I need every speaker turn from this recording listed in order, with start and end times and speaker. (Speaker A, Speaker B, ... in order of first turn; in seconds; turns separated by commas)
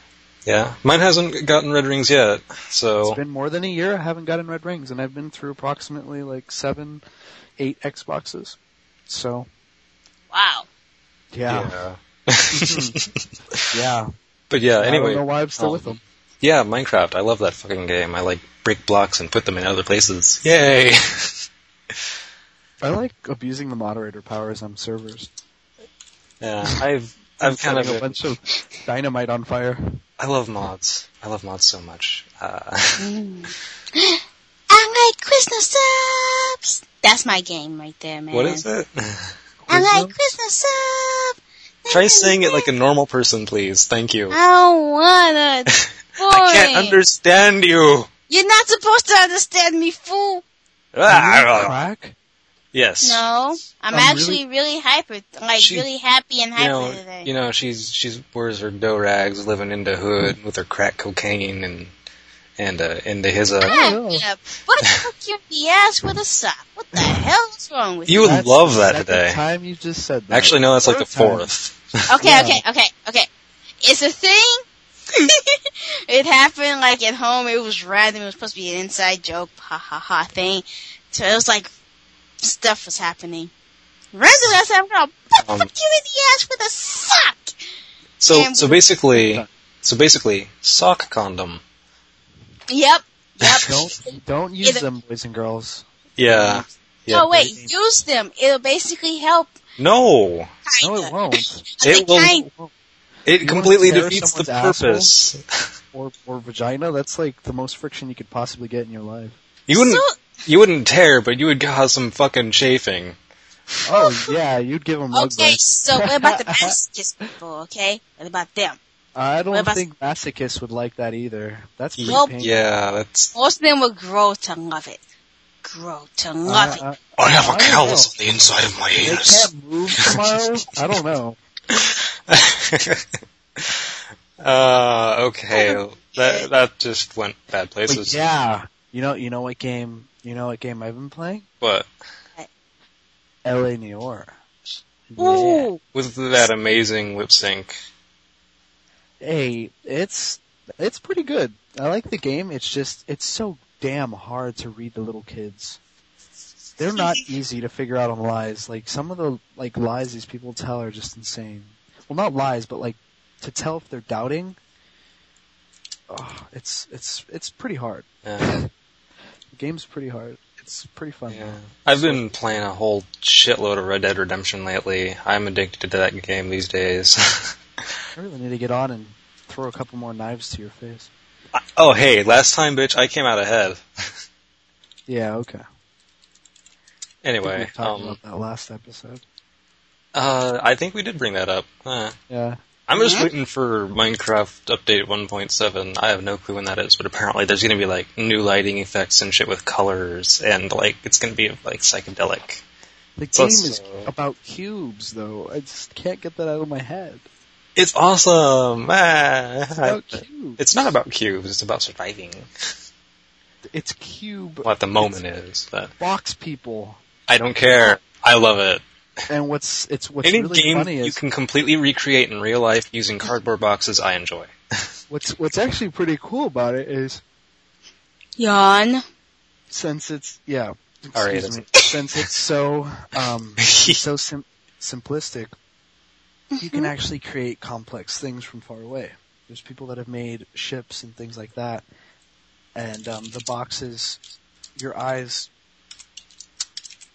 Speaker A: 0.5-3.2, Speaker B: 3.0-7.0, Speaker B: 7.6-8.6, Speaker B: 9.1-9.5, Speaker C: 10.3-10.7, Speaker B: 11.3-11.8, Speaker A: 11.5-13.7, Speaker B: 12.5-13.0, Speaker B: 13.7-14.1, Speaker A: 14.5-21.4, Speaker B: 14.8-16.0, Speaker B: 22.8-25.3, Speaker A: 26.4-28.2, Speaker B: 27.4-30.0, Speaker A: 30.2-33.1, Speaker C: 33.0-38.6, Speaker A: 38.3-39.4, Speaker B: 39.6-40.4, Speaker C: 39.7-42.7, Speaker A: 41.9-44.4, Speaker C: 44.3-47.0, Speaker A: 45.7-48.1, Speaker C: 48.3-50.4, Speaker A: 50.9-51.8, Speaker B: 51.1-52.1, Speaker A: 52.7-53.2, Speaker C: 53.0-57.3, Speaker B: 53.9-54.4, Speaker A: 55.6-55.9, Speaker A: 56.6-61.9, Speaker A: 62.6-63.9, Speaker C: 63.6-68.4, Speaker B: 63.7-64.2, Speaker A: 68.1-69.4, Speaker B: 68.2-71.5, Speaker A: 70.3-72.1, Speaker C: 72.1-73.3, Speaker B: 72.2-72.6, Speaker C: 73.8-81.7, Speaker C: 82.4-83.5, Speaker C: 84.1-87.6, Speaker A: 85.4-85.7, Speaker A: 88.2-91.6, Speaker C: 88.3-88.8, Speaker B: 89.1-89.5, Speaker C: 92.7-94.8, Speaker A: 93.4-93.7, Speaker B: 93.7-97.7, Speaker A: 96.2-97.3, Speaker C: 97.1-99.5, Speaker A: 99.8-100.5, Speaker C: 100.7-102.5, Speaker B: 100.8-101.7, Speaker A: 101.8-102.3, Speaker B: 102.3-102.7, Speaker A: 103.3-105.4, Speaker B: 103.4-105.1, Speaker B: 105.9-109.4, Speaker A: 109.7-113.2, Speaker C: 109.7-110.1, Speaker B: 113.9-116.8, Speaker C: 113.9-114.3, Speaker C: 115.1-118.8, Speaker B: 119.2-122.6, Speaker C: 119.5-119.8, Speaker A: 122.0-123.3, Speaker C: 122.1-122.3, Speaker C: 123.3-125.0, Speaker C: 125.6-126.8, Speaker B: 126.5-128.1, Speaker A: 127.2-130.4, Speaker B: 129.0-131.4, Speaker A: 131.7-133.1, Speaker A: 133.6-138.2, Speaker C: 135.5-136.5, Speaker B: 137.9-141.5, Speaker A: 141.6-141.9, Speaker B: 143.4-144.4, Speaker B: 145.1-145.7, Speaker C: 145.2-145.8, Speaker A: 145.2-147.8, Speaker B: 149.2-155.8, Speaker B: 156.8-164.6, Speaker B: 166.1-168.7, Speaker A: 168.2-168.6, Speaker B: 169.5-172.3, Speaker A: 171.3-177.6, Speaker B: 178.2-181.1, Speaker A: 181.5-184.1, Speaker B: 185.1-185.6, Speaker A: 187.2-188.2, Speaker B: 187.4-189.2, Speaker A: 190.1-192.2, Speaker B: 192.3-192.6, Speaker A: 192.9-202.6, Speaker C: 192.9-193.3, Speaker B: 203.2-207.2, Speaker A: 203.3-204.1, Speaker A: 207.8-212.5, Speaker B: 209.8-210.6, Speaker B: 213.7-215.2, Speaker A: 214.6-215.9, Speaker B: 216.0-217.0, Speaker A: 217.3-218.8, Speaker B: 219.3-221.2, Speaker A: 220.2-224.5, Speaker B: 225.1-227.2, Speaker C: 228.4-229.0, Speaker B: 229.7-235.5, Speaker A: 231.1-231.7, Speaker A: 233.6-234.0, Speaker C: 236.5-236.9, Speaker B: 236.6-241.8, Speaker B: 242.8-244.2, Speaker B: 244.8-245.5